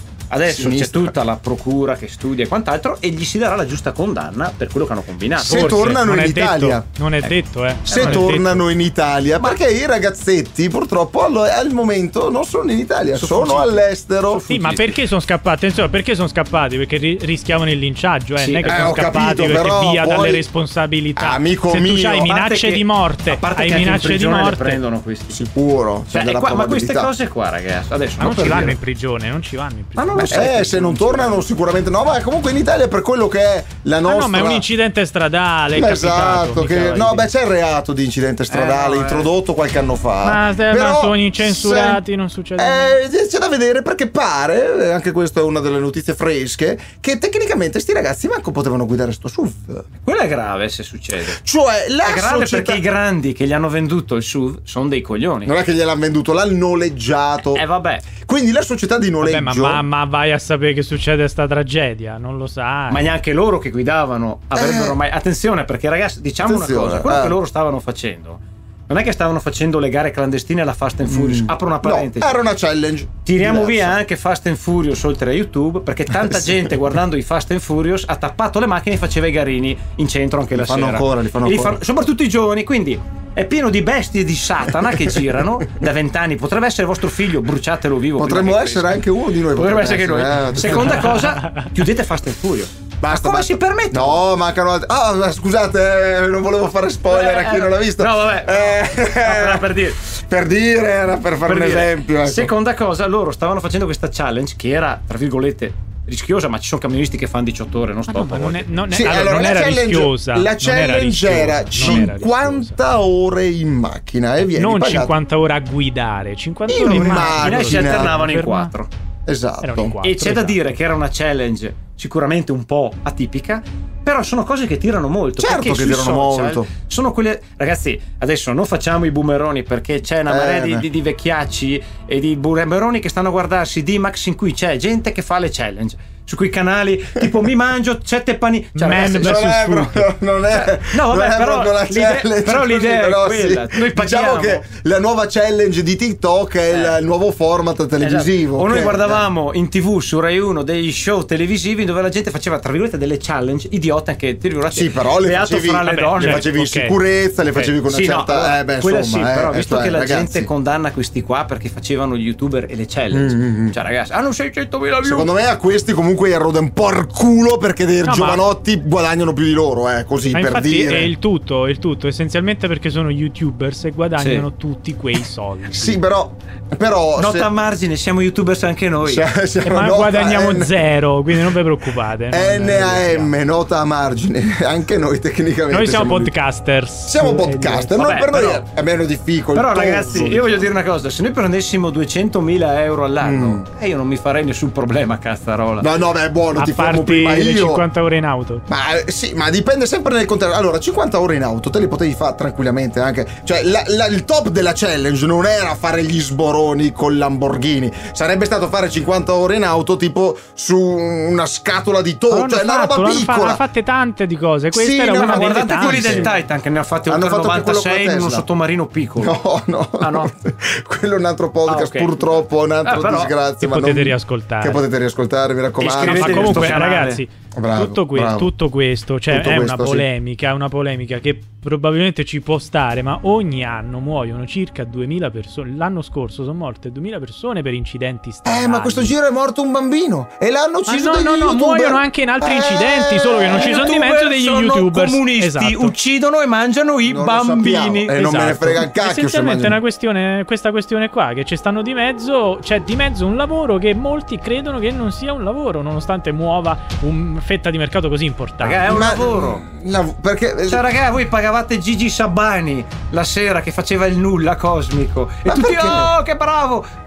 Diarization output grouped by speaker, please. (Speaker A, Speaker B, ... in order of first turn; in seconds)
Speaker A: 0.3-5.9, 7.8-8.3, 13.1-15.0, 18.4-19.0, 22.2-25.4, 26.1-28.8, 29.9-31.4, 38.5-39.3, 50.0-51.4, 52.0-55.5, 57.4-58.1, 62.9-72.4, 73.2-94.2, 97.0-100.0, 101.4-108.8, 111.8-112.1, 116.8-118.9, 120.0-139.5, 140.5-144.6, 146.7-147.0, 148.0-156.5, 157.8-165.3, 174.2-174.5, 177.2-179.2, 187.9-188.6, 189.5-195.9, 215.1-219.3, 220.0-220.3, 221.7-223.4, 225.8-227.2, 243.5-248.6, 258.6-259.6, 260.7-266.9
Speaker B: 0.5-1.1, 5.4-6.8, 7.8-14.4, 18.6-20.4, 21.1-22.3, 25.3-27.1, 30.3-34.7, 35.7-42.0, 42.5-49.8, 51.3-52.8, 55.5-57.6, 58.2-59.8, 64.5-65.0, 66.4-67.4, 71.0-74.0, 80.5-81.8, 88.2-91.3, 93.0-102.5, 108.9-115.2, 116.7-118.2, 119.2-120.0, 125.4-126.7, 130.3-130.9, 138.9-149.2, 154.7-160.5, 163.1-163.8, 165.0-171.1, 175.7-177.5, 179.0-180.9, 182.3-186.4, 187.1-190.7, 193.2-193.7, 195.8-197.9, 198.7-213.6, 214.7-216.3, 217.1-218.5, 219.2-226.8, 227.5-228.5, 229.3-230.1, 238.4-243.9, 247.0-249.8, 258.9-260.9, 265.4-266.1
Speaker C: 5.4-8.6, 14.5-24.8, 28.2-30.4, 34.0-37.3, 40.2-43.0, 59.2-63.1, 108.1-112.8, 114.4-118.7, 119.6-120.6, 138.7-140.1, 155.8-157.0, 157.5-157.8, 168.0-168.4, 170.3-176.0, 179.6-183.3, 185.7-188.0, 190.1-190.5, 196.6-198.6, 212.3-216.4, 223.6-224.8, 226.0-239.2, 240.9-245.9, 248.6-258.9